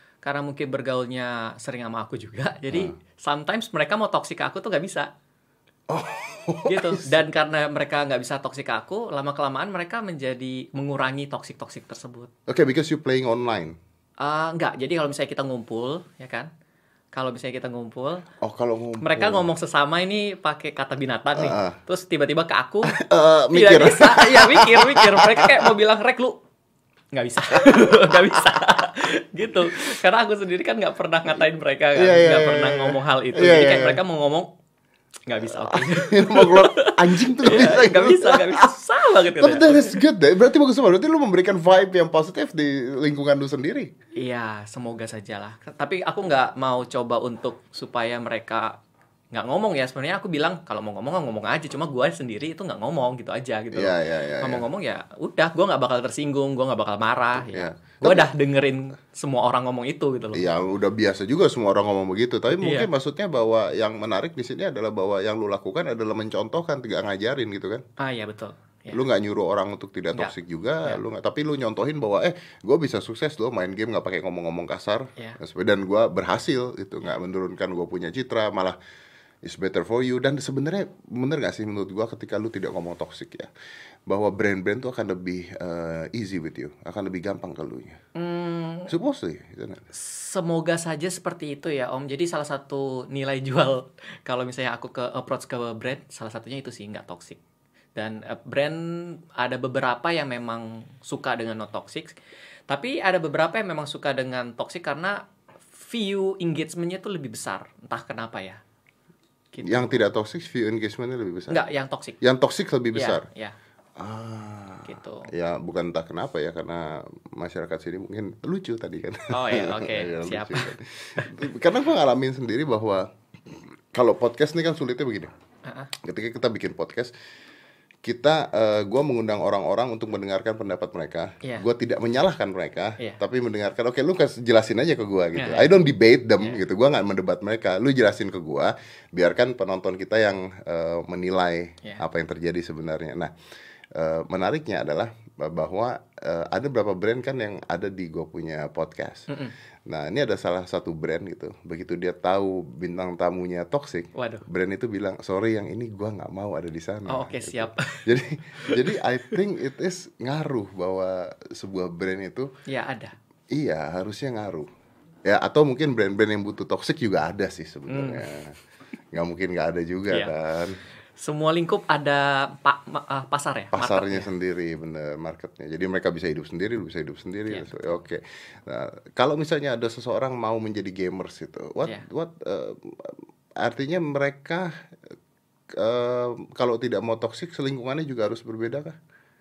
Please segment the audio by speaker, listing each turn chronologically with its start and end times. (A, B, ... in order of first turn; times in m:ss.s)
0:00.2-0:05.1 A
0:05.9-0:07.2 B
0:06.6-0:12.3 A
0:12.5-0:13.8 B
0:14.2-0:16.5 A
0:17.1-0:18.2 A
0:18.4-0:19.4 B
0:19.0-0:23.0 A
0:21.4-0:21.8 B
0:22.9-0:25.7 B
0:23.5-0:26.4 A
0:27.1-0:34.5 A
0:27.5-0:28.6 B
0:32.0-0:34.0 B
0:35.3-0:40.0 A
0:35.4-0:43.9 B
0:44.2-0:48.8 A
0:49.3-1:00.5 A
0:53.7-0:54.6 B
0:57.4-0:58.3 B
1:00.3-1:07.8 B
1:02.6-1:02.9 A
1:08.0-1:09.0 A
1:08.9-1:18.8 B
1:19.4-1:23.5 B
1:24.1-1:28.0 B
1:28.1-1:28.9 A
1:28.9-1:29.8 B
1:29.9-1:37.4 A
1:38.0-1:42.1 A
1:42.7-1:45.2 A
1:45.7-1:48.6 A
1:49.5-1:50.0 A
1:49.6-1:51.6 B
1:51.5-1:52.2 A
1:52.2-1:53.2 B
1:52.9-1:53.5 A
1:54.0-2:05.3 B
1:54.8-1:55.3 A
1:59.3-2:01.3 A
2:05.6-2:05.9 A
2:06.0-2:07.1 B
2:08.0-2:23.3 B
2:15.4-2:15.7 A
2:23.9-2:29.3 B
2:29.9-2:42.5 B
2:34.1-2:34.4 A
2:37.1-2:38.0 A
2:38.6-2:39.4 A
2:42.7-2:43.1 A
2:43.5-2:44.7 B
2:45.2-2:48.6 B
2:47.9-2:48.2 A
2:49.1-2:50.8 B
2:51.2-2:54.3 A
2:53.7-3:04.7 B
2:57.5-2:58.0 A
3:05.7-3:09.0 B